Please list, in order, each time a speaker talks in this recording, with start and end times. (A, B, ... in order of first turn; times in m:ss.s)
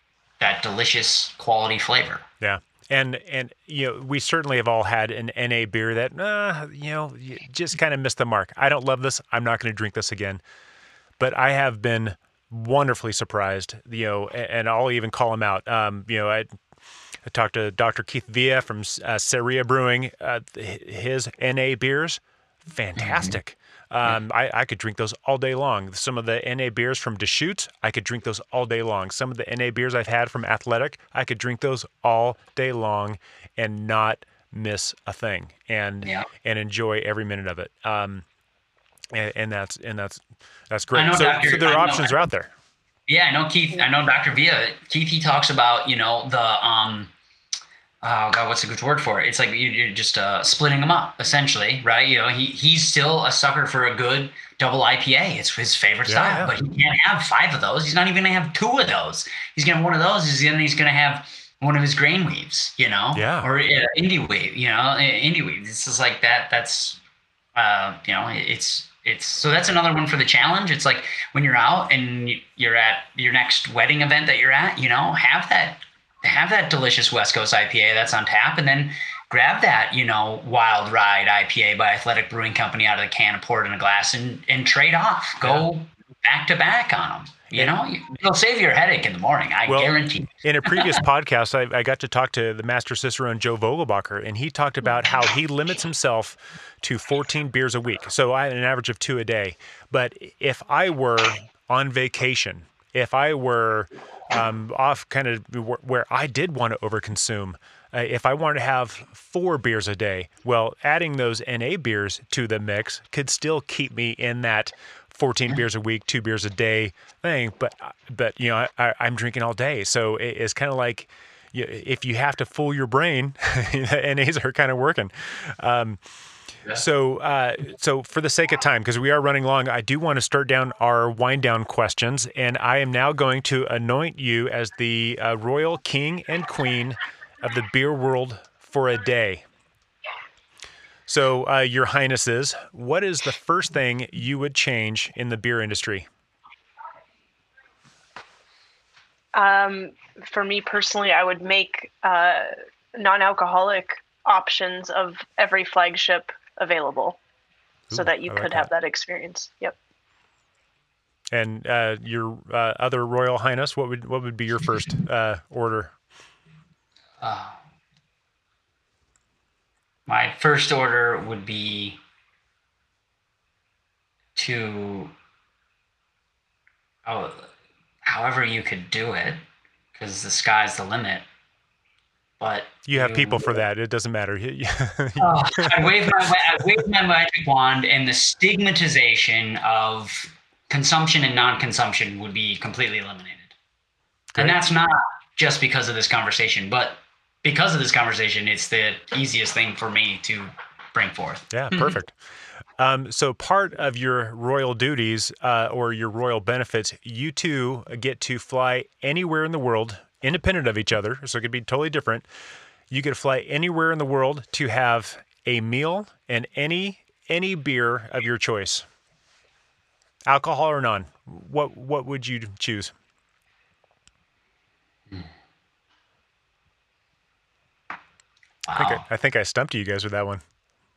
0:00.4-0:02.2 A
0:02.4-0:10.4 B
0:11.2-0:16.5 B
0:17.2-0:38.2 B
0:23.0-0:23.4 A
0:39.1-0:42.5 B
0:40.9-0:42.2 A
0:43.1-0:47.1 A
0:48.0-1:07.0 A
0:56.1-0:56.5 B
1:03.1-1:03.5 B
1:07.5-1:31.0 A
1:29.6-2:06.0 B
2:06.6-2:19.4 B
2:21.1-2:26.1 B
2:29.3-2:37.2 C
2:37.9-2:38.7 B
2:37.9-2:39.8 C
2:41.3-2:45.9 B
2:47.2-2:47.6 A
2:50.1-2:52.0 A
2:54.4-2:55.1 A
2:57.0-2:57.5 A
2:58.0-2:59.4 A
2:59.9-3:01.2 A
3:02.4-3:03.6 A
3:02.9-3:06.6 B
3:05.2-3:13.5 A
3:14.4-3:21.9 A
3:21.5-3:22.2 B
3:22.8-3:32.3 B
3:32.9-3:38.8 B
3:40.3-3:42.9 B
3:48.6-3:49.0 A
3:48.7-3:50.4 B